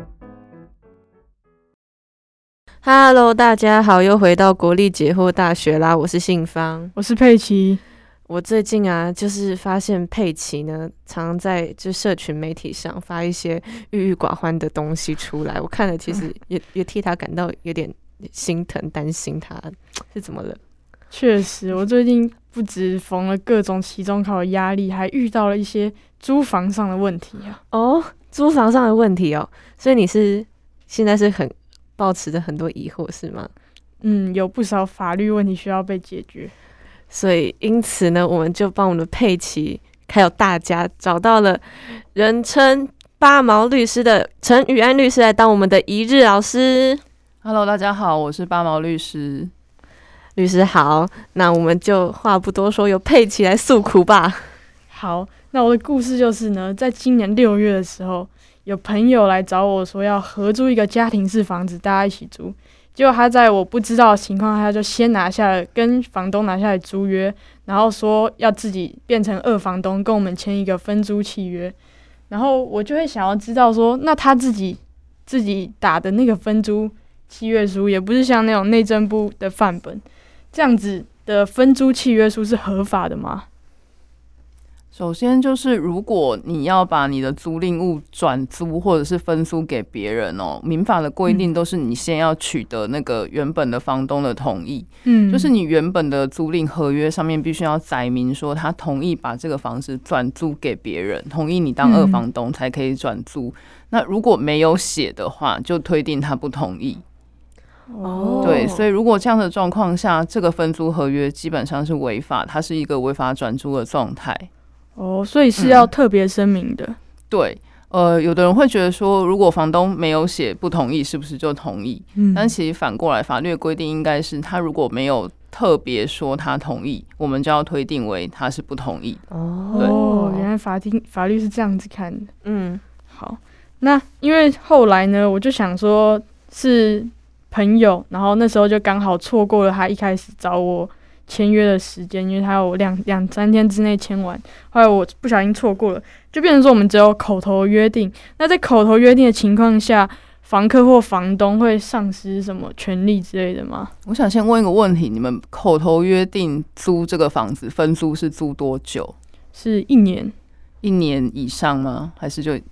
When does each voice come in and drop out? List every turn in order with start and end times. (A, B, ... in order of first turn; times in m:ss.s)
0:02.8-0:06.9 A
0:06.9-0:07.8 B
0:08.3-0:20.6 A
0:21.1-0:27.6 B
0:27.7-0:33.5 A
0:34.0-0:36.5 B
0:37.1-0:47.0 A
0:47.4-0:49.5 C
0:50.4-0:54.5 A
0:54.9-1:11.7 B
1:12.3-1:23.4 B
1:24.9-1:47.0 C
1:35.0-1:35.5 B
1:41.8-1:42.2 B
1:47.9-1:48.7 B
1:48.0-1:48.8 A
1:48.4-1:54.5 C
1:55.0-1:57.0 B
1:55.6-1:55.9 C
1:57.3-2:09.2 C
2:02.2-2:02.5 B
2:09.3-2:10.5 A
2:09.7-2:12.3 B
2:12.4-2:12.8 A
2:13.1-2:33.9 B
2:34.0-2:39.1 C
2:39.5-2:40.3 B
2:40.8-2:42.6 C